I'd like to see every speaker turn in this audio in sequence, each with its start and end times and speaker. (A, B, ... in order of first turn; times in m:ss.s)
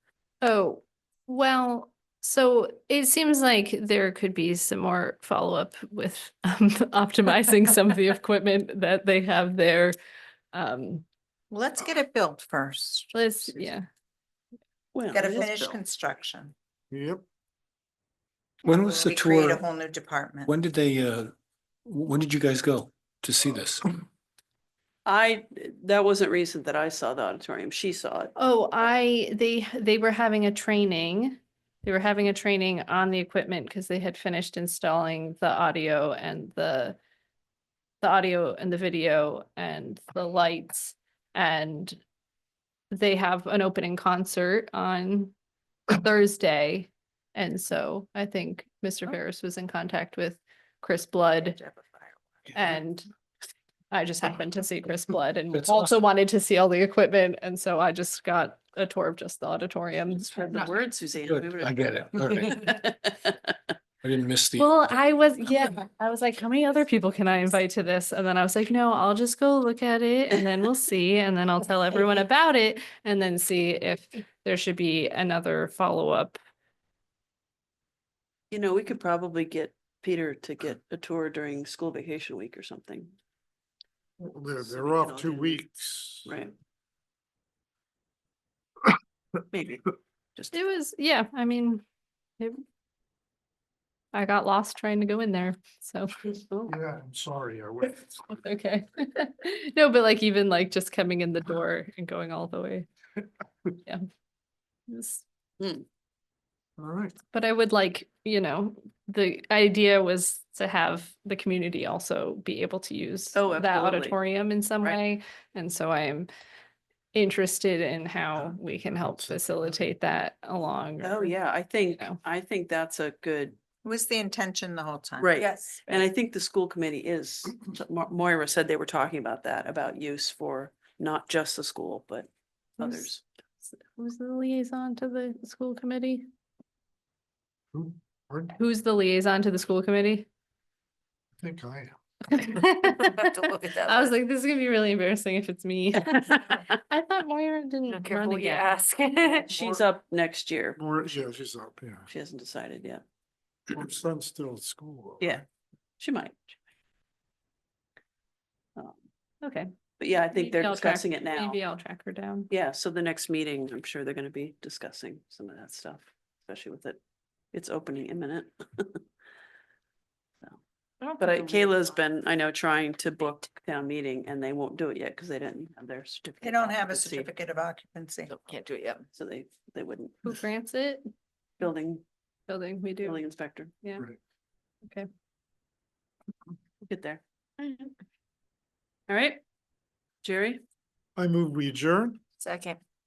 0:00.4-0:09.9 A
0:10.5-0:11.0 A
0:11.5-0:13.1 B
0:13.1-0:13.8 A
0:14.9-0:15.8 C
0:15.1-0:16.6 B
0:16.9-0:17.2 D
0:18.6-0:19.6 E
0:18.7-0:20.5 B
0:20.5-0:21.3 E
0:21.9-0:23.9 E
0:25.1-0:28.3 C
0:28.4-0:37.0 A
0:38.0-0:42.0 A
0:42.9-0:45.3 A
0:45.9-0:51.6 A
0:52.5-0:53.1 A
0:53.9-1:00.4 A
0:55.5-0:56.0 E
1:00.2-1:03.4 C
1:01.2-1:02.7 E
1:04.0-1:04.7 E
1:04.6-1:16.4 A
1:18.5-1:23.1 C
1:24.2-1:26.3 D
1:24.6-1:25.6 C
1:26.2-1:26.5 C
1:29.5-1:30.6 C
1:30.5-1:31.8 A
1:34.1-1:36.1 A
1:36.5-1:36.8 C
1:36.7-1:38.0 D
1:38.3-1:42.9 A
1:44.9-1:45.2 A
1:45.6-1:45.8 C
1:46.8-1:47.2 D
1:47.3-1:56.3 A
1:53.4-1:54.2 C
1:57.1-2:01.4 A
1:59.2-1:59.8 D
2:01.0-2:03.6 C
2:03.8-2:05.3 B
2:05.2-2:13.2 C
2:05.4-2:06.1 F
2:12.8-2:13.1 A
2:13.7-2:16.3 A
2:17.7-2:18.5 D
2:18.6-2:20.3 A
2:21.4-2:22.0 D
2:22.3-2:23.1 A
2:22.8-2:24.2 F
2:23.8-2:28.8 A
2:26.5-2:26.7 C
2:27.9-2:29.5 F
2:29.4-2:29.8 D
2:29.5-2:30.8 C
2:30.8-2:32.1 D
2:32.1-2:33.0 C
2:33.7-2:35.4 D
2:35.2-2:35.4 C
2:36.0-2:36.6 C
2:39.4-2:39.7 A
2:40.0-2:41.6 C
2:40.3-2:42.5 A
2:42.5-2:47.0 C
2:47.5-2:49.0 C
2:51.0-2:52.0 F
2:51.2-2:57.3 C
2:56.4-2:58.3 B
2:58.3-2:59.1 F
2:59.2-3:00.3 C
3:00.2-3:01.0 A
3:01.6-3:02.0 C
3:02.5-3:03.2 A
3:03.0-3:03.7 C
3:06.8-3:07.9 C
3:09.1-3:09.4 C
3:10.2-3:10.6 C
3:11.2-3:12.2 D
3:12.4-3:12.8 F